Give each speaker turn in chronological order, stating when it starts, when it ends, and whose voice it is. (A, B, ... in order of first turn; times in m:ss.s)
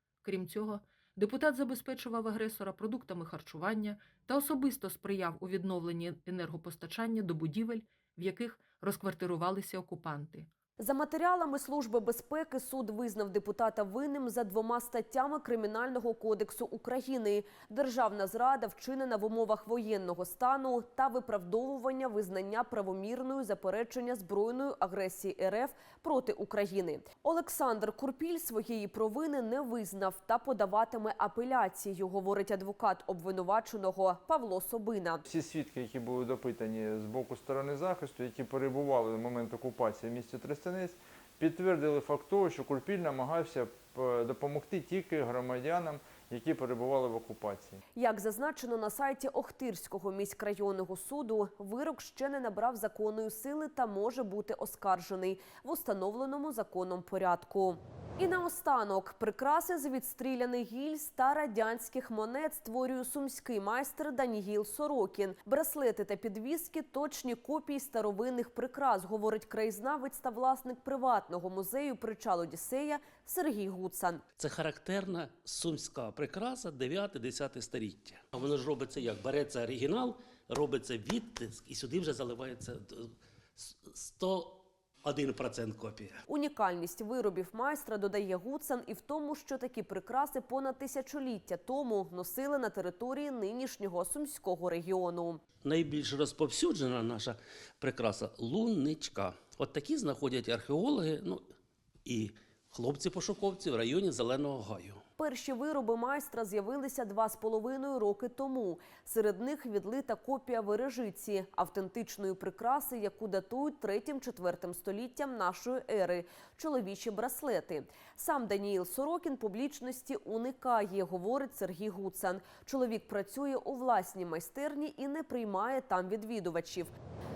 0:00.2-0:10.5 A
0:10.8-0:35.2 B
0:35.3-0:47.8 C
0:48.0-1:14.2 B
1:14.4-1:26.2 D
1:26.3-1:35.4 B
1:35.6-1:41.4 D
1:42.1-1:45.0 D
1:45.2-2:06.9 B